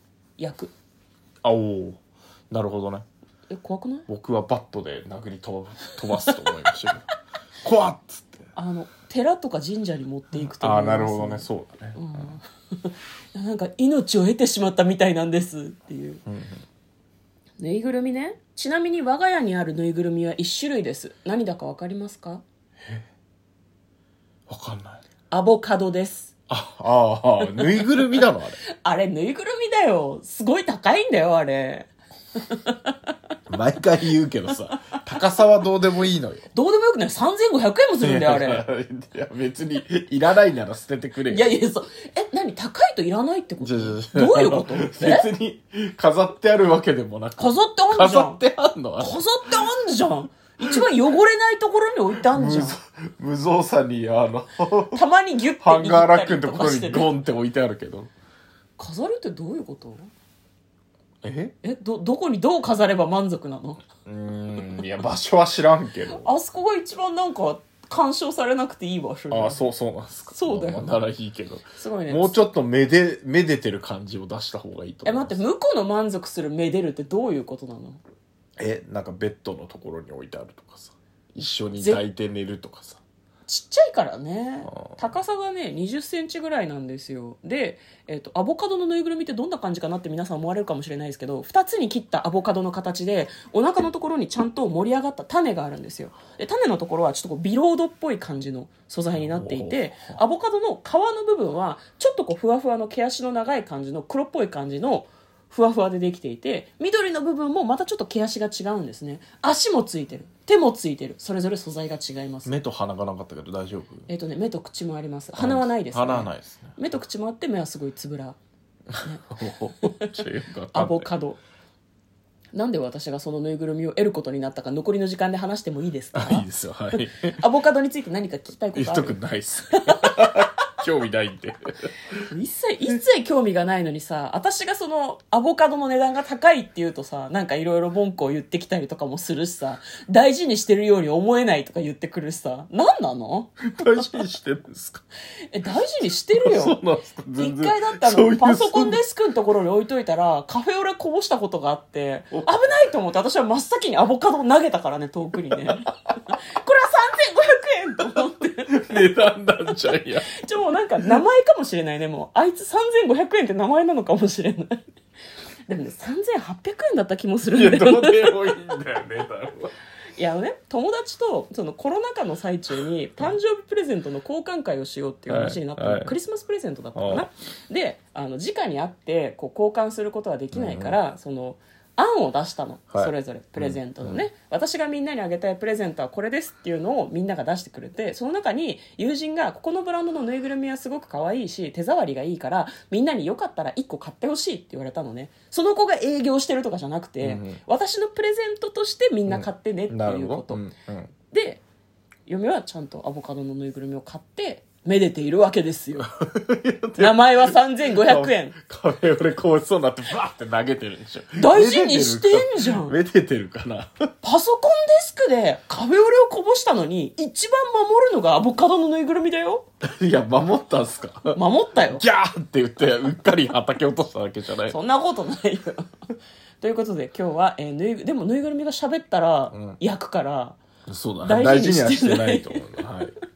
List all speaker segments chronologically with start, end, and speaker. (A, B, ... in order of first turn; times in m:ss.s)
0:00.4-0:00.7 A
0:01.4-0:02.0 B
0:02.5-0:03.0 B
0:03.5-0:04.1 A
0:04.1-0:07.0 B
0:06.3-0:06.7 A
0:07.6-0:08.5 B
0:08.5-0:16.2 A
0:10.3-0:12.4 B
0:16.2-0:16.6 B
0:17.6-0:22.4 A
0:24.5-0:25.0 B
0:25.3-0:26.3 A
0:26.5-0:28.6 B
0:27.5-0:28.2 A
0:28.8-0:33.0 A
0:33.5-0:36.4 B
0:36.5-0:38.6 A
0:38.0-0:41.5 B
0:41.3-0:45.3 A
0:43.6-0:49.2 B
0:47.4-0:48.4 A
0:49.0-0:52.8 A
0:52.3-0:55.0 B
0:54.9-0:57.1 A
0:55.6-0:58.1 B
0:58.8-1:00.1 A
1:01.2-1:01.5 B
1:01.6-1:03.8 A
1:04.0-1:06.3 B
1:06.1-1:09.7 A
1:09.3-1:15.4 B
1:10.3-1:11.0 A
1:11.8-1:12.4 A
1:15.0-1:18.0 A
1:18.6-1:23.0 B
1:21.3-1:22.0 A
1:23.5-1:52.5 A
1:24.7-1:25.0 B
1:39.1-1:40.2 B
1:52.4-1:54.1 B
1:54.1-1:58.4 A
1:55.4-1:56.8 B
1:58.9-2:01.1 B
1:59.0-2:01.4 A
2:02.5-2:09.2 A
2:06.1-2:07.4 B
2:08.7-2:11.9 B
2:09.8-2:10.5 A
2:12.3-2:23.5 A
2:23.7-2:25.0 B
2:25.5-2:26.8 A
2:26.4-2:29.0 B
2:27.3-2:39.1 A
2:38.7-2:40.3 B
2:39.7-2:44.8 A
2:45.7-2:48.5 A
2:47.5-2:49.7 B
2:50.2-3:20.6 A
2:55.3-2:56.2 B
2:56.9-2:57.3 B
3:00.5-3:01.0 B
3:02.9-3:04.2 B
3:17.2-3:17.6 B
3:19.3-3:21.1 B
3:21.3-3:21.6 A
3:22.2-3:26.1 A
3:26.2-3:34.1 B
3:27.0-3:28.6 A
3:31.4-3:33.0 A
3:34.2-3:39.6 A
3:39.8-3:44.8 B
3:41.3-3:42.0 A
3:44.6-3:45.9 A
3:46.6-3:50.6 A
3:49.5-3:49.8 B
3:50.9-3:53.1 B
3:51.2-3:52.6 A